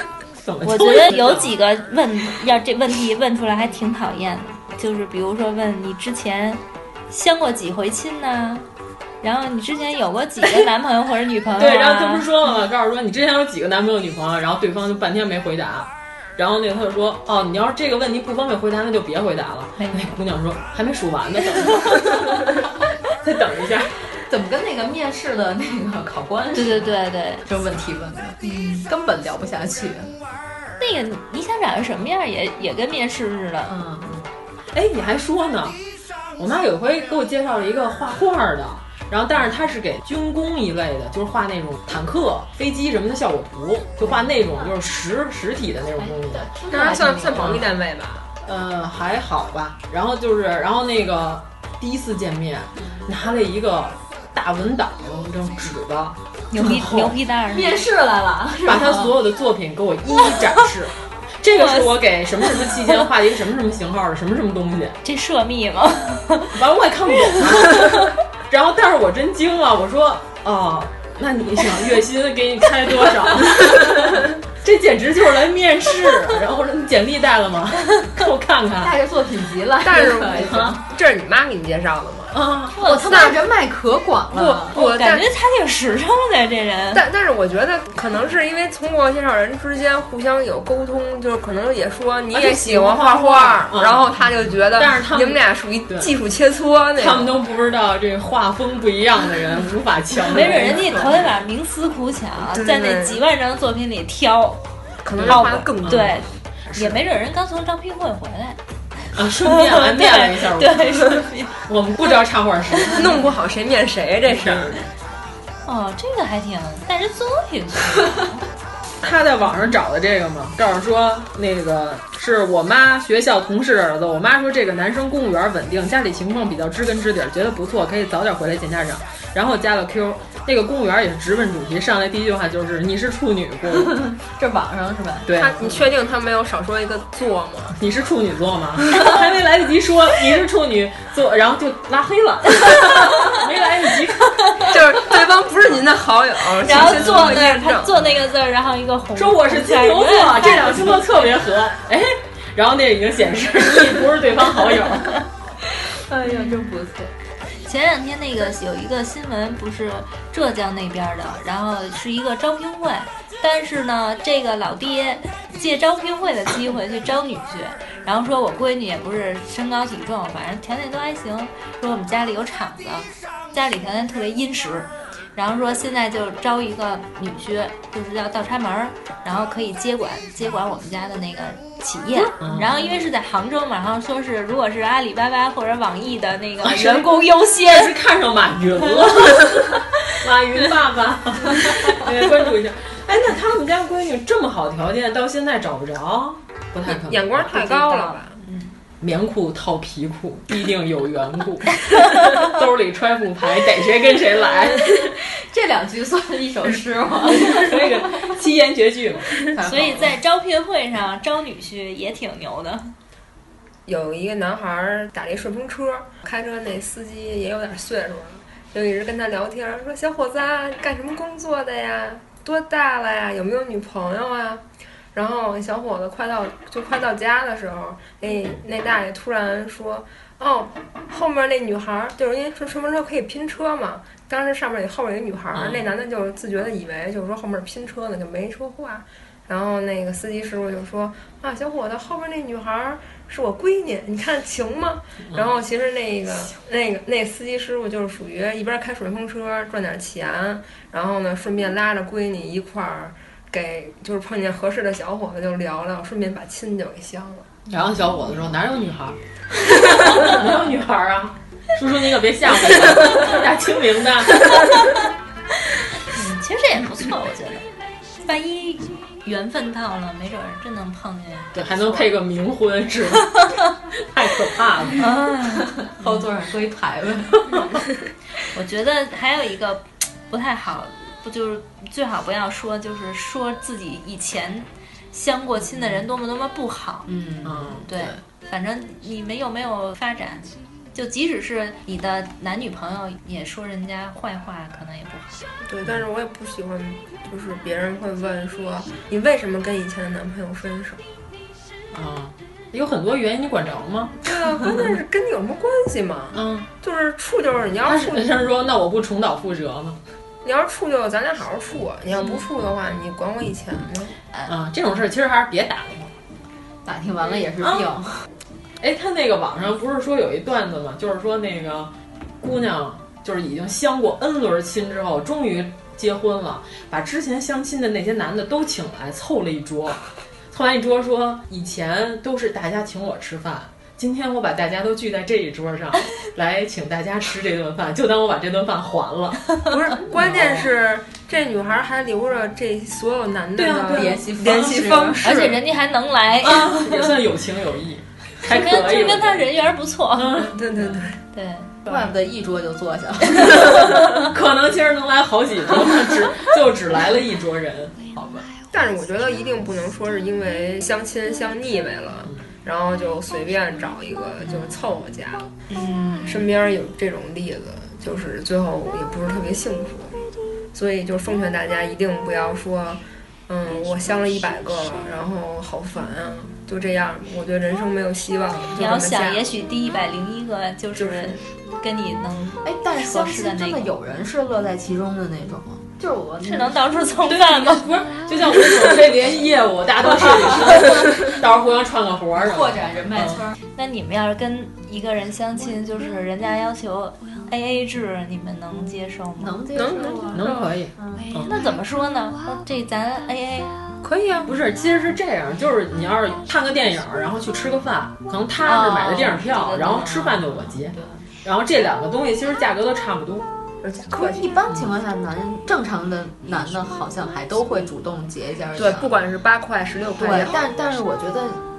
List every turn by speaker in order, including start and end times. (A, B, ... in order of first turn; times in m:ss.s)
0:00.4-0:01.5 A
0:00.6-0:08.7 B
0:09.2-0:12.3 B
0:11.6-0:22.3 A
0:19.8-0:20.1 B
0:23.2-0:23.9 A
0:24.3-0:30.1 C
0:26.5-0:27.4 B
0:28.4-0:28.9 B
0:30.8-0:33.7 B
0:33.7-0:34.2 C
0:34.7-0:35.8 A
0:36.4-0:46.6 A
0:46.4-0:47.6 C
0:46.7-0:48.3 D
0:47.2-0:47.7 A
0:48.4-0:57.1 A
0:56.5-0:57.9 B
0:56.6-0:59.2 C
0:58.6-1:05.0 A
1:01.6-1:01.9 B
1:05.0-1:06.6 B
1:06.5-1:18.9 A
1:07.3-1:08.1 B
1:18.8-1:20.8 C
1:19.8-1:22.4 D
1:20.4-1:20.8 A
1:22.3-1:22.8 A
1:22.8-1:24.8 C
1:22.8-1:23.3 B
1:23.1-1:23.4 D
1:24.3-1:25.3 D
1:24.7-1:27.0 B
1:26.9-1:37.4 D
1:32.3-1:34.1 A
1:34.7-1:36.1 A
1:37.0-1:41.0 A
1:40.3-1:44.7 B
1:40.7-1:41.0 C
1:42.5-1:43.2 D
1:45.0-1:46.2 D
1:45.2-1:46.2 A
1:45.2-1:48.6 B
1:46.7-1:47.0 A
1:49.1-1:53.1 A
1:49.4-1:51.6 B
1:52.9-1:54.8 D
1:54.3-1:54.8 A
1:55.7-1:58.4 B
1:59.0-2:14.0 A
2:13.7-2:15.3 C
2:15.3-2:15.8 A
2:15.4-2:17.8 D
2:17.8-2:24.5 A
2:24.7-2:28.1 D
2:26.6-2:31.0 B
2:26.8-2:27.4 A
2:29.2-2:35.2 A
2:36.1-2:37.1 C
2:36.3-2:36.6 B
2:37.6-3:07.9 B
3:02.4-3:02.7 A
3:06.6-3:17.6 A
3:17.0-3:18.4 D
3:17.5-3:18.7 B
3:19.0-3:25.1 A
3:25.1-3:28.3 C
3:27.4-3:29.3 A
3:29.5-3:30.2 C
3:29.6-3:32.9 B
3:33.9-3:44.6 D
3:45.1-4:17.5 D
3:55.5-3:55.9 A
4:17.7-4:24.7 A
4:26.1-4:27.6 B
4:28.2-4:32.1 B
4:31.5-4:33.4 A
4:34.0-4:35.0 A
4:35.0-4:36.1 B
4:35.6-4:37.6 C
4:38.5-4:47.1 B
4:47.1-4:47.8 C
4:47.4-4:48.1 A
4:47.9-4:55.4 B
4:55.6-5:01.0 D
5:01.9-5:04.2 A
5:04.2-5:08.4 D
5:06.3-5:06.7 A
5:07.8-5:10.0 A
5:10.4-5:14.2 D
5:14.5-5:16.1 A
5:16.8-5:18.2 C
5:17.6-5:17.9 A
5:18.8-5:30.0 A
5:30.5-5:39.4 A
5:39.7-5:45.6 D
5:40.1-5:40.7 A
5:43.6-5:44.5 A
5:43.9-5:45.3 C
5:45.2-5:47.2 B
5:46.4-5:49.5 A
5:48.4-5:50.4 B
5:50.1-5:50.6 A
5:50.5-5:51.2 D
5:51.3-5:51.9 B
5:51.8-5:54.1 C
5:54.3-5:58.0 A
5:58.1-5:58.5 C
5:58.7-6:05.5 D
6:05.7-6:06.5 B
6:06.3-6:10.2 D
6:10.7-6:19.5 D
6:18.8-6:23.9 B
6:21.0-6:21.4 D
6:22.6-6:26.8 C
6:26.4-6:27.8 B
6:27.2-6:33.4 A
6:32.4-6:33.6 C
6:33.8-6:39.6 B
6:39.4-6:41.3 C
6:39.8-6:40.6 D
6:40.4-6:41.5 A
6:41.4-6:43.8 B
6:44.0-6:44.5 D
6:44.5-6:53.5 A
6:48.6-6:50.6 B
6:53.8-6:54.5 D
6:54.1-6:59.1 C
6:58.8-7:00.7 D
7:00.2-7:01.6 C